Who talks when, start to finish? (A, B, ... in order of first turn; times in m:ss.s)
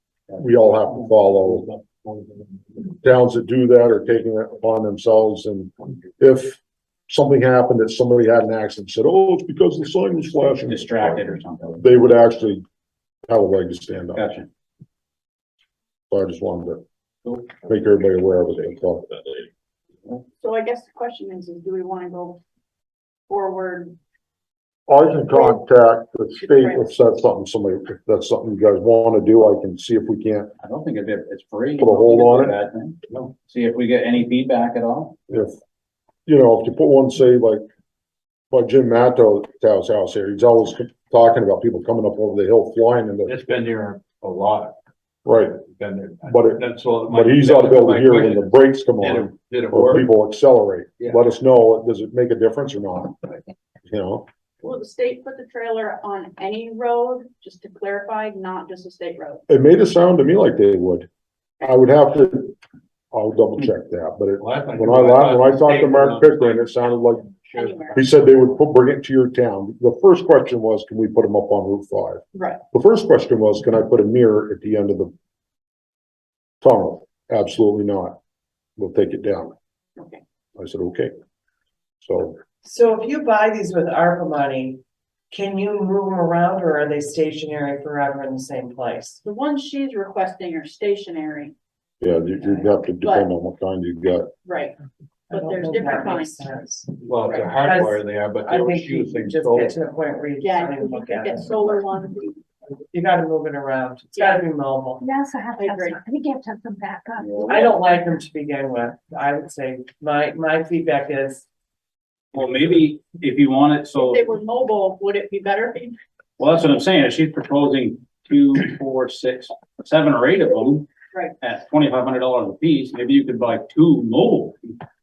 0:00.4-0:01.7 A
0:00.4-0:02.6 B
0:03.0-0:12.6 A
0:10.3-0:12.0 C
0:13.3-0:14.3 A
0:14.1-0:14.5 C
0:16.1-0:16.8 A
0:17.6-0:19.0 A
0:20.4-0:22.4 D
0:23.3-0:24.0 D
0:24.9-0:30.5 A
0:25.3-0:25.6 D
0:26.4-0:27.0 D
0:30.6-0:35.2 C
0:31.8-0:32.6 A
0:35.3-0:35.6 A
0:36.2-0:37.6 A
0:38.5-0:43.3 A
0:43.2-0:44.8 B
0:45.2-0:45.6 A
0:45.6-0:50.1 B
0:46.2-0:53.2 A
0:51.0-0:51.3 B
0:53.8-0:54.2 A
0:54.6-0:59.4 D
0:59.5-1:01.1 A
1:01.6-1:02.6 A
1:03.1-1:07.2 A
1:04.4-1:08.1 B
1:07.5-1:08.0 D
1:07.9-1:15.1 A
1:12.3-1:12.6 D
1:16.6-1:18.2 A
1:18.8-1:19.5 A
1:20.0-1:20.2 D
1:20.6-1:21.1 A
1:22.0-1:22.4 A
1:22.6-1:24.8 E
1:25.3-1:29.2 E
1:29.2-1:31.5 D
1:32.0-1:34.3 A
1:32.4-1:32.6 E
1:33.0-1:33.3 D
1:34.4-1:34.8 D
1:35.3-1:41.8 E
1:35.3-1:36.4 D
1:37.0-1:39.8 B
1:40.4-1:42.4 D
1:42.9-1:45.0 E
1:45.0-1:47.4 F
1:45.6-1:46.0 D
1:47.3-1:47.6 C
1:47.4-1:51.5 E
1:52.3-1:54.2 C
1:54.0-1:56.0 D
1:56.4-2:00.9 C
2:01.4-2:04.8 C